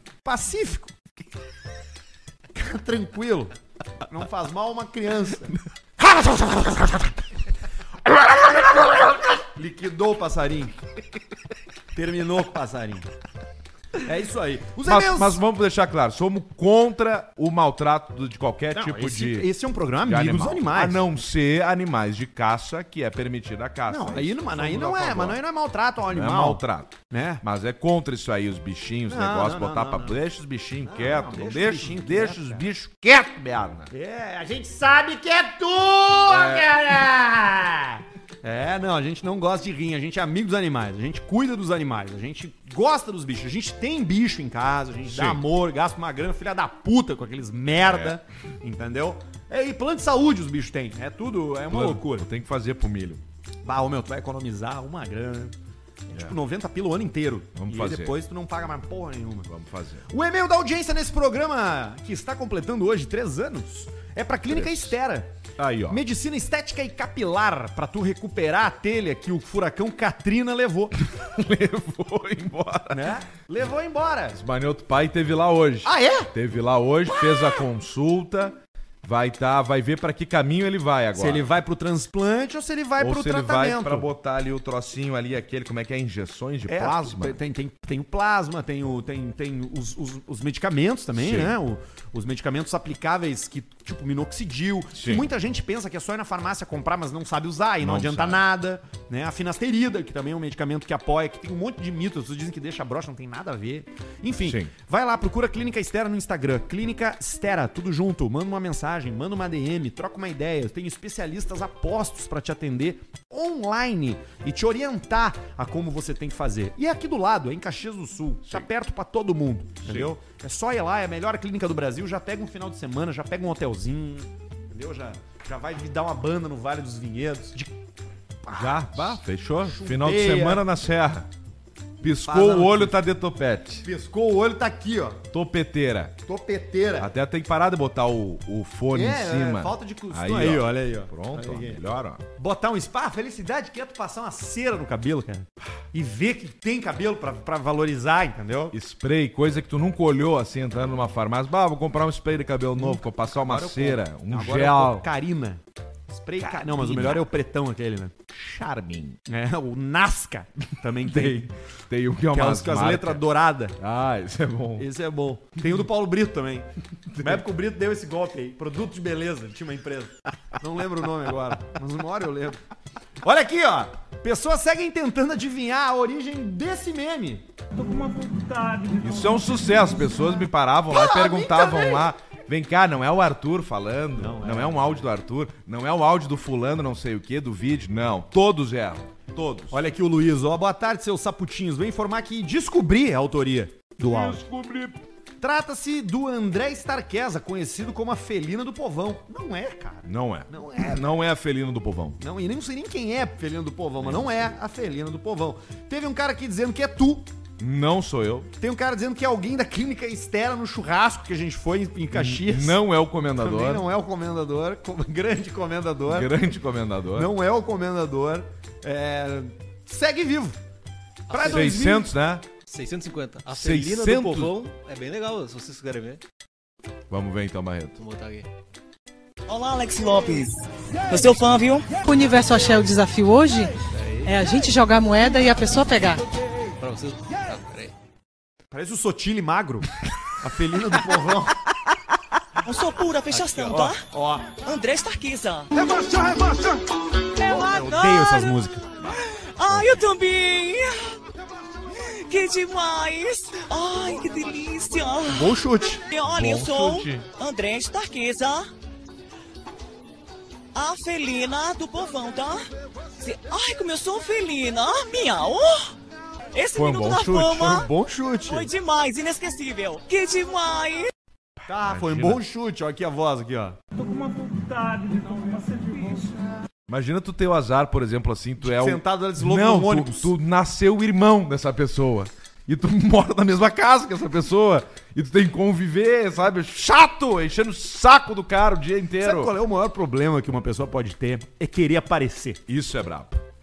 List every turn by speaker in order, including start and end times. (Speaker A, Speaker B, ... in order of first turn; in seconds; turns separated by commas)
Speaker A: 0.2-0.9, Speaker A: 2.5-3.5, Speaker A: 4.1-7.1, Speaker A: 9.4-10.8, Speaker A: 11.9-13.1, Speaker A: 14.0-15.4, Speaker B: 14.8-19.5, Speaker A: 18.7-21.1, Speaker B: 20.0-25.4, Speaker A: 23.9-27.4, Speaker B: 26.1-33.9, Speaker A: 29.1-30.2, Speaker A: 30.8-32.7, Speaker A: 33.9-52.3, Speaker B: 36.3-36.7, Speaker B: 45.0-45.4, Speaker B: 47.8-48.2, Speaker B: 51.7-53.2, Speaker A: 53.6-55.5, Speaker A: 56.1-59.5, Speaker B: 57.5-58.2, Speaker B: 59.5-60.0, Speaker A: 60.1-65.3, Speaker B: 64.5-65.0, Speaker B: 65.6-66.0, Speaker A: 65.9-71.0, Speaker B: 71.0-73.1, Speaker A: 72.9-74.4, Speaker B: 74.3-81.5, Speaker A: 75.8-76.3, Speaker A: 77.1-77.7, Speaker A: 81.2-84.1, Speaker B: 83.0-87.4, Speaker A: 86.7-127.7, Speaker B: 91.1-91.6, Speaker B: 94.9-95.3, Speaker B: 97.8-98.4, Speaker B: 104.4-104.7, Speaker B: 119.8-120.2, Speaker A: 128.4-130.7, Speaker B: 128.5-131.3, Speaker B: 132.0-133.9, Speaker A: 132.1-133.0, Speaker A: 133.8-135.2, Speaker B: 135.3-136.2, Speaker A: 136.3-137.1, Speaker B: 137.0-142.2, Speaker A: 138.9-141.8, Speaker A: 142.4-148.8, Speaker B: 148.7-155.1, Speaker A: 152.8-158.1, Speaker B: 156.4-157.2, Speaker B: 158.3-159.2, Speaker A: 159.3-161.5, Speaker B: 161.0-163.2, Speaker A: 162.3-163.8, Speaker B: 163.8-164.9, Speaker A: 164.8-172.6, Speaker B: 167.1-167.4, Speaker A: 173.2-177.5, Speaker B: 179.0-189.8, Speaker A: 180.9-182.1, Speaker A: 184.2-185.1, Speaker A: 189.7-194.4, Speaker B: 194.1-195.0, Speaker A: 195.4-201.0, Speaker B: 200.1-202.2, Speaker A: 202.2-207.3, Speaker B: 204.0-204.5, Speaker B: 207.6-208.5, Speaker A: 208.6-212.8, Speaker B: 212.1-213.8, Speaker A: 213.4-216.4, Speaker B: 216.1-217.3, Speaker A: 217.1-220.6, Speaker C: 221.3-221.7, Speaker A: 221.3-222.1, Speaker B: 221.4-222.5, Speaker C: 222.7-226.2, Speaker B: 223.5-224.6, Speaker B: 227.1-228.0, Speaker C: 228.0-228.5, Speaker D: 229.5-231.9, Speaker E: 232.1-233.7, Speaker C: 233.9-234.4, Speaker E: 234.3-236.2, Speaker C: 236.8-237.9, Speaker A: 238.7-239.9, Speaker A: 240.4-241.6, Speaker D: 242.6-245.7, Speaker C: 243.3-243.9, Speaker A: 243.7-244.5, Speaker A: 245.8-246.8, Speaker D: 247.4-248.6, Speaker A: 247.5-248.9, Speaker D: 249.1-251.2, Speaker D: 252.0-255.6, Speaker A: 255.3-256.0, Speaker D: 256.1-258.7, Speaker B: 256.3-257.2, Speaker D: 260.7-262.6, Speaker D: 263.2-265.9, Speaker D: 266.5-267.9, Speaker B: 266.7-267.9, Speaker A: 267.6-268.7, Speaker D: 268.5-271.1, Speaker B: 271.6-272.4, Speaker A: 271.7-273.8, Speaker B: 276.9-289.6, Speaker A: 278.6-280.3, Speaker A: 289.2-292.6, Speaker B: 292.7-293.4